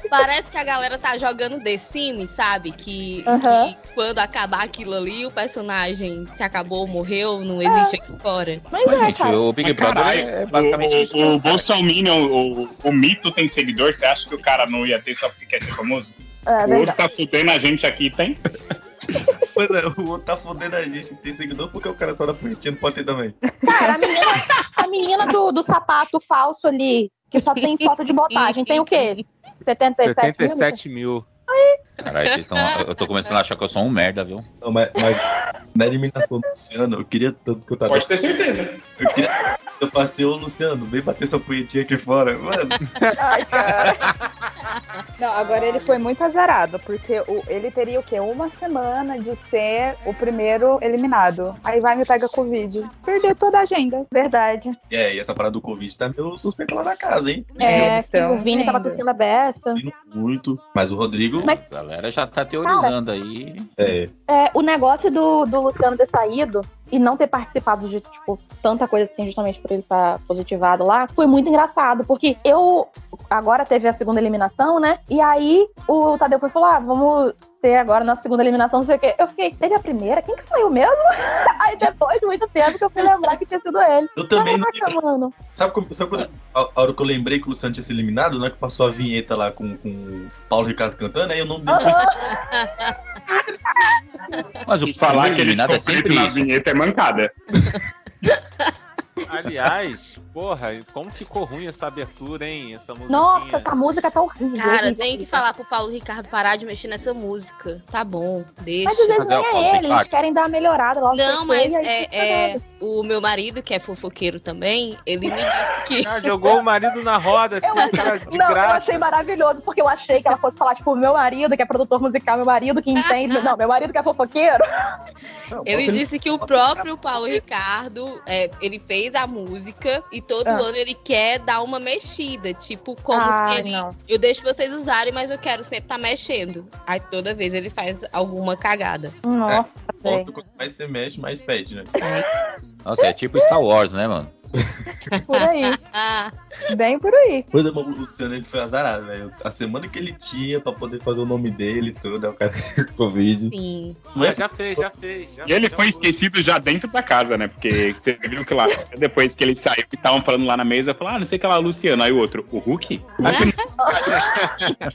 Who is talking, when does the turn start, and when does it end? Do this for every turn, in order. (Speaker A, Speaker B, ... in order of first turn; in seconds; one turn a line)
Speaker A: 0.1-8.6
Speaker B: 3.2-3.7
Speaker B: 7.6-8.0
Speaker B: 8.7-9.4
Speaker C: 8.8-11.7
Speaker D: 9.6-18.4
Speaker B: 16.5-17.0
Speaker E: 19.5-23.4
Speaker B: 23.6-30.8
Speaker A: 28.3-29.2
Speaker F: 30.0-31.2
Speaker B: 31.5-31.8
Speaker A: 32.0-33.3
Speaker C: 32.0-34.4
Speaker E: 34.6-35.2
Speaker E: 35.7-38.1
Speaker D: 37.9-38.8
Speaker E: 38.9-42.8
Speaker B: 43.1-44.0
Speaker F: 43.7-44.0
Speaker G: 45.2-54.1
Speaker B: 54.1-54.8
Speaker E: 54.9-57.9
Speaker B: 57.6-59.8
Speaker G: 57.6-59.0
Speaker E: 59.7-61.5
Speaker C: 61.3-63.7
Speaker B: 62.6-62.9
Speaker E: 63.8-64.1
Speaker B: 64.3-85.3
Speaker E: 84.2-85.0
Speaker E: 85.5-92.1
Speaker B: 91.7-92.3
Speaker A: 91.7-93.0
Speaker C: 94.7-96.4
Speaker D: 94.8-97.3
Speaker A: 98.3-98.7
Speaker F: 99.3-103.7
Speaker B: 103.1-105.4
Speaker A: 104.5-109.2
Speaker B: 108.8-112.6
Speaker C: 109.1-110.1
Speaker A: 111.1-116.4
Speaker F: 116.0-119.0
Speaker B: 117.6-125.0
Speaker A: 117.8-118.1
Speaker A: 123.0-123.5
Speaker E: 125.5-126.9
Speaker A: 125.6-139.1
Speaker B: 133.1-133.9
Speaker B: 139.2-140.3
Speaker E: 139.5-141.9
Speaker A: 142.0-142.3
Speaker B: 142.0-142.5
Speaker C: 142.8-144.3
Speaker A: 145.1-146.3
Speaker B: 145.3-145.8
Speaker B: 146.7-147.5
Speaker E: 147.5-153.5
Speaker A: 153.5-154.0
Speaker E: 154.1-154.4
Speaker F: 154.2-156.2
Speaker D: 155.4-164.7
Speaker E: 163.2-163.5
Speaker A: 163.2-163.7
Speaker B: 163.8-164.3
Speaker F: 164.3-164.7